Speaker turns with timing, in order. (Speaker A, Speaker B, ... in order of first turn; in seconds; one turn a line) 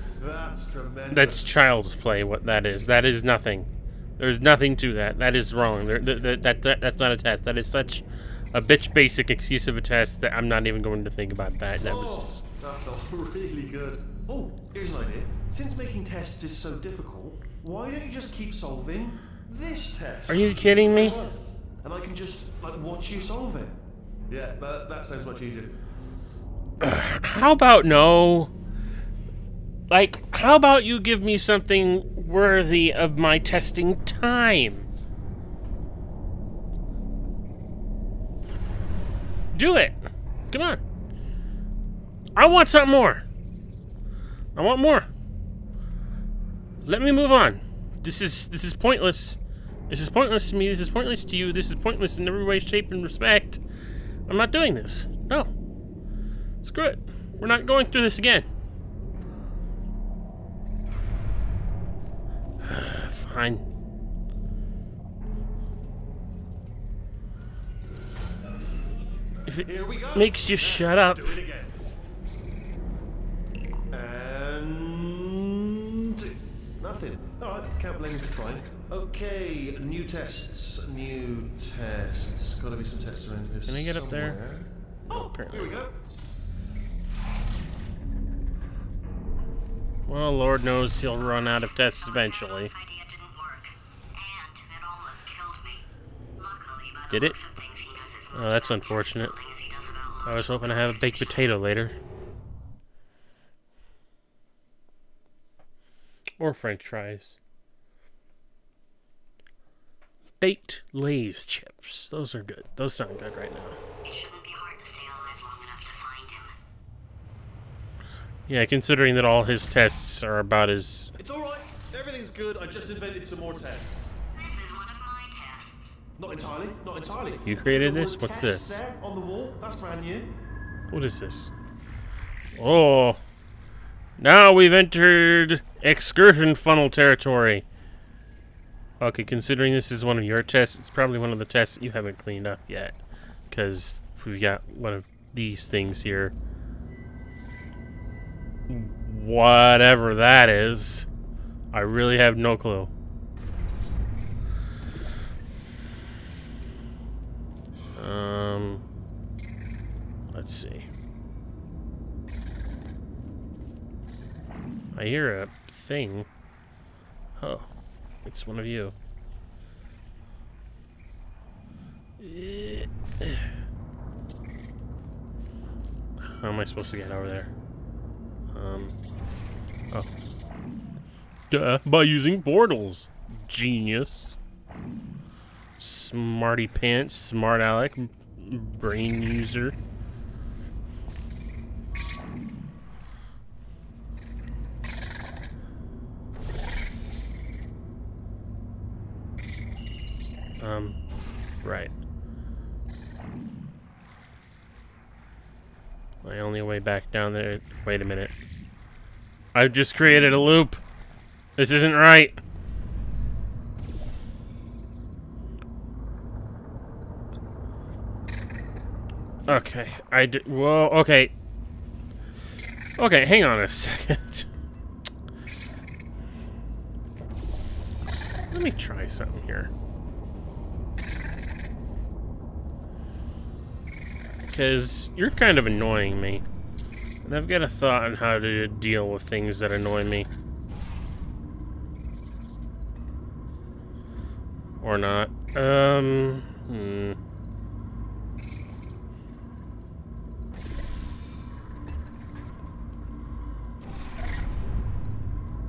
Speaker A: 0.2-1.5
Speaker B: 1.1-12.4
Speaker A: 11.8-23.8
Speaker B: 20.3-21.2
Speaker A: 24.3-25.8
Speaker B: 26.8-28.5
Speaker B: 29.9-34.9
Speaker B: 39.5-40.0
Speaker B: 40.5-40.8
Speaker B: 42.4-43.2
Speaker B: 44.5-45.1
Speaker B: 46.8-49.4
Speaker B: 49.9-53.6
Speaker B: 54.3-55.5
Speaker B: 56.6-58.5
Speaker B: 62.6-63.6
Speaker B: 69.5-71.4
Speaker A: 69.6-71.7
Speaker A: 73.9-86.0
Speaker B: 83.7-84.4
Speaker B: 85.1-85.9
Speaker B: 90.1-92.7
Speaker C: 92.0-95.8
Speaker C: 96.4-101.6
Speaker B: 97.1-97.3
Speaker B: 98.3-99.3
Speaker B: 100.2-102.0
Speaker B: 106.4-107.4
Speaker B: 110.4-113.8
Speaker C: 114.0-116.5
Speaker B: 118.5-121.1
Speaker A: 121.2-124.1
Speaker C: 124.3-125.9
Speaker A: 126.2-130.3
Speaker B: 127.4-128.8
Speaker B: 130.9-131.5
Speaker B: 132.5-133.2
Speaker B: 134.2-137.6
Speaker B: 139.0-143.0
Speaker B: 143.5-146.3
Speaker B: 148.7-151.1
Speaker B: 151.7-152.9
Speaker B: 157.9-158.8
Speaker B: 160.3-160.9
Speaker B: 164.9-166.3
Speaker B: 167.4-167.7
Speaker B: 168.2-168.9
Speaker B: 172.2-173.4
Speaker B: 176.2-177.5
Speaker B: 178.5-178.9
Speaker B: 181.5-184.4
Speaker B: 185.8-189.8
Speaker B: 200.6-201.0
Speaker B: 201.6-201.9
Speaker B: 206.2-208.3
Speaker B: 209.5-210.8
Speaker B: 211.6-212.4
Speaker B: 219.5-221.3
Speaker B: 223.0-224.5
Speaker B: 228.5-229.7
Speaker B: 234.5-236.4
Speaker B: 237.2-240.3
Speaker B: 244.8-247.2